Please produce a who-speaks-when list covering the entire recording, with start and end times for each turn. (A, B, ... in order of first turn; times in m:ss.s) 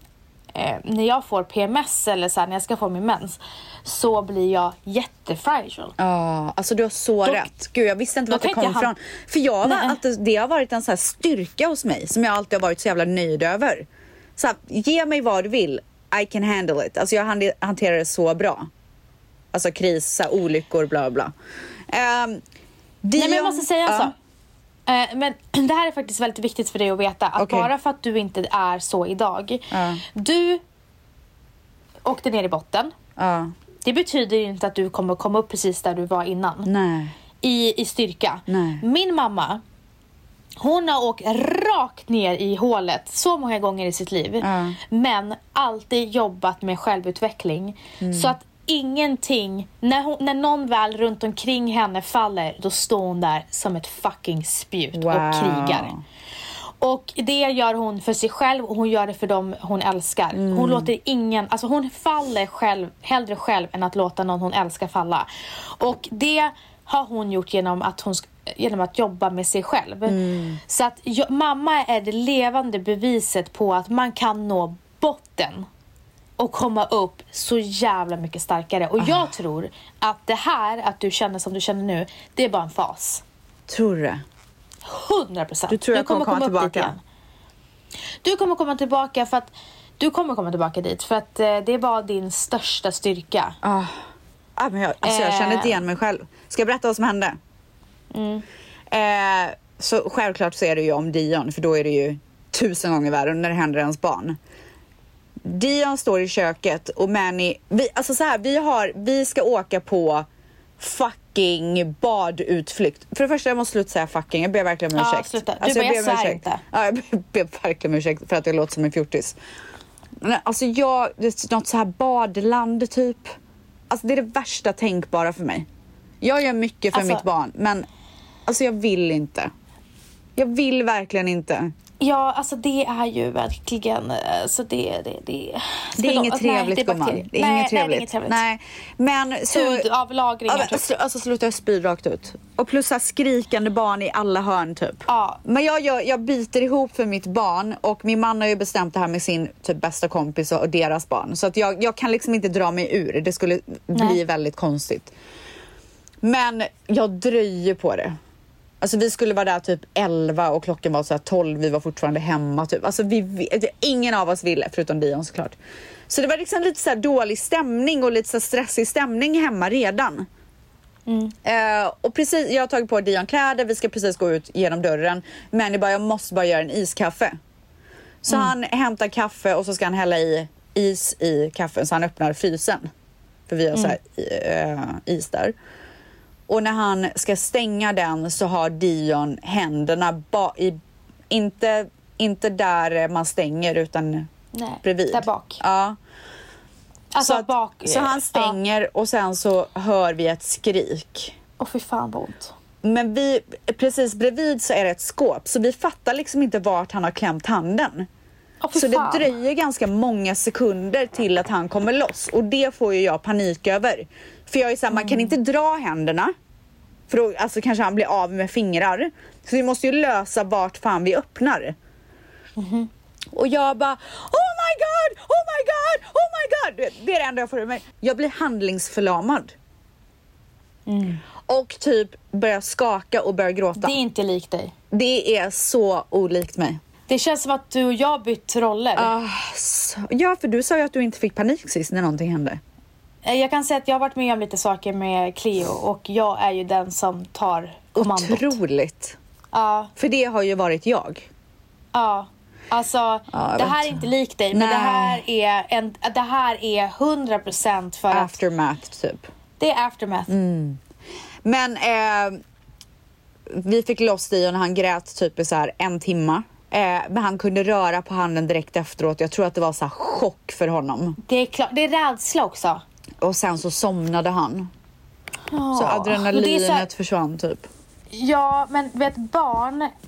0:00.6-0:06.0 A
0:06.0-0:18.7 B
0:08.3-0:08.9 A
0:09.6-0:10.0 A
0:19.5-0:21.3 B
0:21.9-0:22.4 B
0:23.0-0:24.1 B
0:23.2-0:24.2 A
0:24.9-0:30.6 A
0:27.4-0:27.7 B
0:29.7-0:30.0 B
0:32.0-0:32.9 A
0:33.2-0:33.5 B
0:33.8-0:36.7 A
0:36.7-0:37.1 B
0:37.4-0:39.6 A
0:38.5-0:38.8 B
0:40.6-0:55.9 A
0:44.4-0:44.8 B
0:48.0-0:48.4 B
0:54.9-0:56.0 B
0:56.8-1:05.3 A
1:00.3-1:00.9 B
1:05.8-1:15.7 A
1:10.1-1:10.6 B
1:16.4-1:23.2 A
1:19.0-1:19.3 B
1:23.7-1:24.2 B
1:24.8-1:27.0 A
1:25.7-1:26.9 B
1:28.2-1:33.6 A
1:33.6-1:34.0 B
1:34.6-1:37.4 B
1:35.0-1:35.8 A
1:38.1-1:38.4 A
1:38.9-1:44.4 B
1:45.4-1:50.3 B
1:50.8-1:59.4 B
1:55.0-1:56.6 A
2:00.2-2:03.3 B
2:03.9-2:05.7 B
2:06.2-2:07.9 B
2:06.9-2:07.2 A
2:08.5-2:09.5 B
2:10.4-2:11.7 B
2:12.0-2:18.4 A
2:16.0-2:19.9 B
2:19.5-2:20.8 A
2:20.5-2:35.1 B
2:25.1-2:25.4 A
2:36.2-2:38.2 B
2:38.8-2:45.6 B
2:46.1-2:50.3 B
2:51.1-2:51.4 A
2:51.4-2:57.4 B
2:58.2-3:02.9 B
3:03.5-3:05.6 B
3:06.5-3:10.8 B
3:11.3-3:14.3 B
3:14.5-3:15.6 A
3:14.8-3:16.0 B
3:17.1-3:18.6 A
3:17.2-3:21.4 B
3:21.6-3:22.5 A
3:22.8-3:28.1 B
3:28.6-3:29.3 A
3:28.7-3:36.3 B
3:34.9-3:35.3 A
3:37.1-3:41.8 B
3:42.6-3:42.9 A
3:43.3-3:49.5 B
3:50.9-3:51.2 A
3:51.4-3:54.0 B
3:53.8-3:54.7 A
3:54.9-3:56.8 B
3:57.1-3:59.1 A
3:59.0-4:02.6 B
4:03.2-4:08.6 A
4:08.0-4:09.2 B
4:09.5-4:09.9 A
4:10.0-4:11.3 B
4:11.9-4:18.4 A
4:13.3-4:15.2 B
4:18.1-4:19.3 B
4:19.6-4:20.3 A
4:20.3-4:20.8 B
4:21.4-4:22.4 B
4:23.5-4:31.2 B
4:31.2-4:32.8 A
4:33.2-4:34.7 B
4:35.5-4:36.9 A
4:35.7-4:37.7 B
4:38.1-4:39.9 A